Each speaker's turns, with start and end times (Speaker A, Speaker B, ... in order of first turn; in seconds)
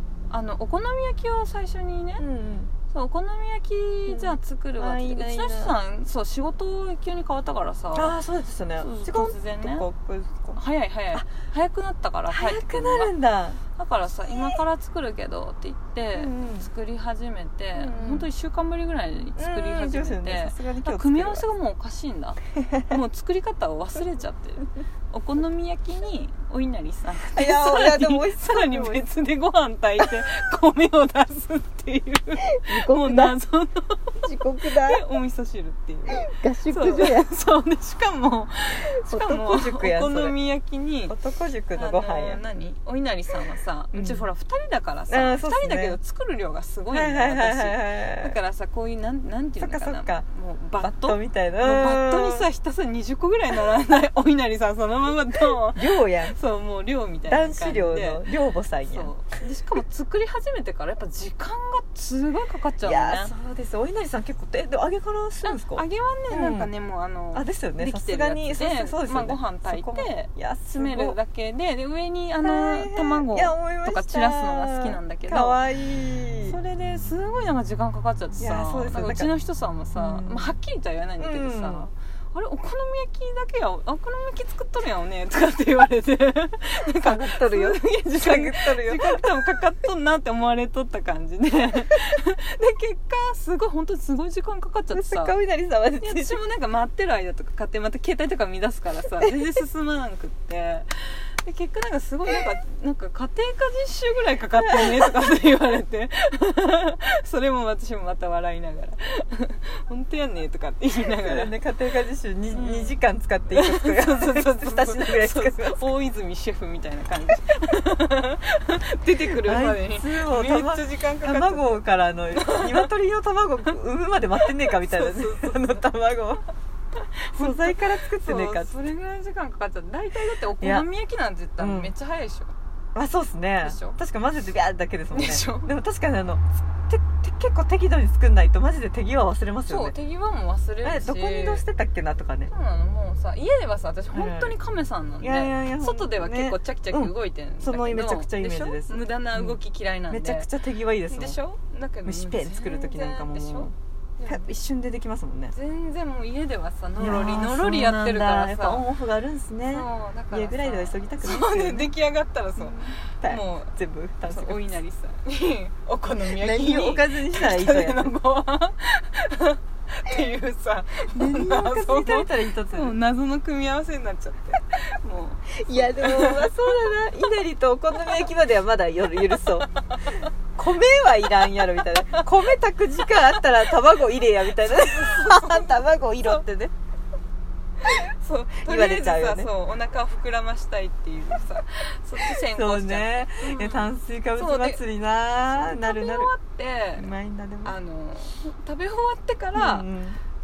Speaker A: 0.3-2.2, 2.9-8.2, 8.8-9.9, 10.5-13.1, 13.8-41.1, 41.7-58.2, 58.8-63.3, 65.4-75.6, 76.5-95.3, 96.0-111.5, 112.5-113.0, 113.5-122.9, 124.4-125.8, 127.0-132.5, 133.6-134.0, 135.1-135.7, 139.7-141.7, 142.5-150.5, 151.1-154.5, 155.5-158.9, 159.7-163.7, 164.3-176.6, 179.6-180.3, 184.6-186.4, 187.8-194.8, 195.5-197.1, 197.6-199.9
Speaker B: 2.2-2.7, 4.1-5.8, 7.9-10.6, 12.3-13.6, 14.3-14.6, 16.1-16.7, 17.8-18.3, 19.4-21.4, 22.6-23.0, 27.2-29.0, 32.5-33.4, 34.2-35.0, 36.1-37.4, 39.0-40.4, 41.1-42.4, 43.9-44.3, 45.1-46.0, 46.9-48.3, 49.6-50.2, 50.8-52.5, 55.7-56.4, 57.3-59.1, 62.9-66.7, 67.3-71.2, 72.4-76.6, 78.4-79.3, 80.0-80.6, 81.2-81.9, 87.0-89.3, 94.9-96.4, 104.6-105.1, 111.0-115.8, 119.3-126.5, 127.3-128.7, 130.6-130.9, 131.6-131.9, 132.9-139.9, 140.8-142.5, 144.1-144.6, 145.2-149.6, 150.1-151.4, 152.1-153.8, 154.3-155.6, 157.0-161.9, 162.6-164.6, 166.3-168.2, 171.2-173.0, 175.5-179.7, 180.6-186.7, 188.7-189.5, 192.5-196.3, 197.0-197.8, 199.6-200.2